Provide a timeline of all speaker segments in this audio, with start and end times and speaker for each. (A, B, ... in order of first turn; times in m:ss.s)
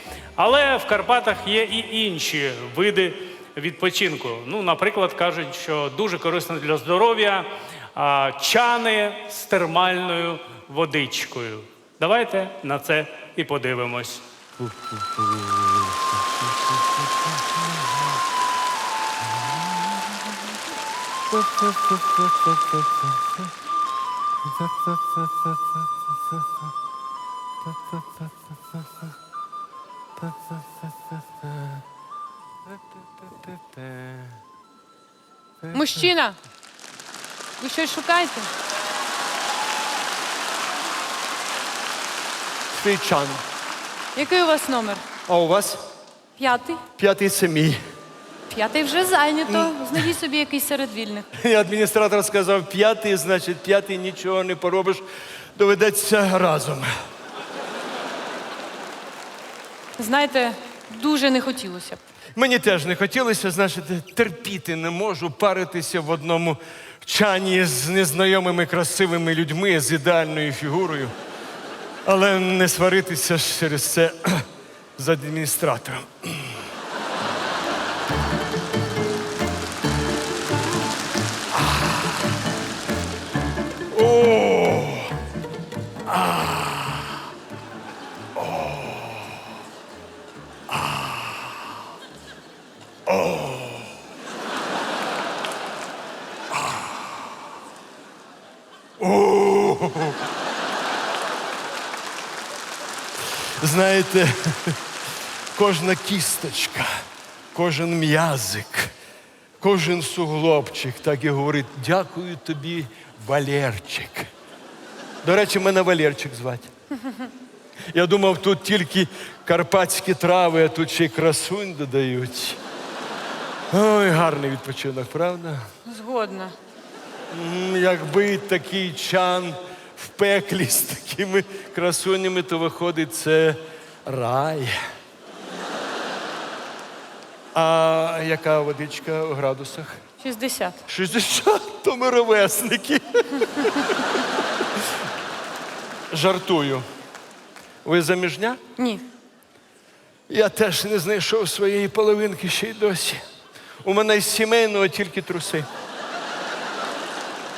0:00.4-0:14.2 A
0:35.7-0:36.4 B
0:37.6-0:38.5 B
0:42.7-0:43.4 C
0:44.1-0:45.0 B
0:45.3-0:45.8 C
0:46.4-0:46.8 B
0:47.0-0:47.8 C
0:48.5-0:51.2 B
0:49.5-0:49.8 C
0:51.4-0:55.0 C
0:55.5-0:56.9 C
1:00.0-1:02.0 B
1:02.4-1:11.1 C
1:12.0-1:14.4 C
1:15.0-1:16.6 C
1:23.9-1:25.1 C
1:26.1-1:27.0 C
1:33.1-1:33.9 C
1:39.0-1:40.2 C
1:43.6-1:44.8 C
1:45.5-1:46.9 C
1:47.5-1:48.9 C
1:49.6-1:54.3 C
1:55.2-1:56.7 C
1:57.9-2:02.6 C
2:03.7-2:05.6 C
2:05.8-2:06.5 B
2:07.3-2:14.8 C
2:17.5-2:20.0 C
2:20.2-2:20.8 B
2:20.9-2:24.0 C
2:26.1-2:26.8 C
2:27.8-2:28.6 C
2:28.8-2:29.0 B
2:30.3-2:33.2 C
2:33.8-2:35.7 C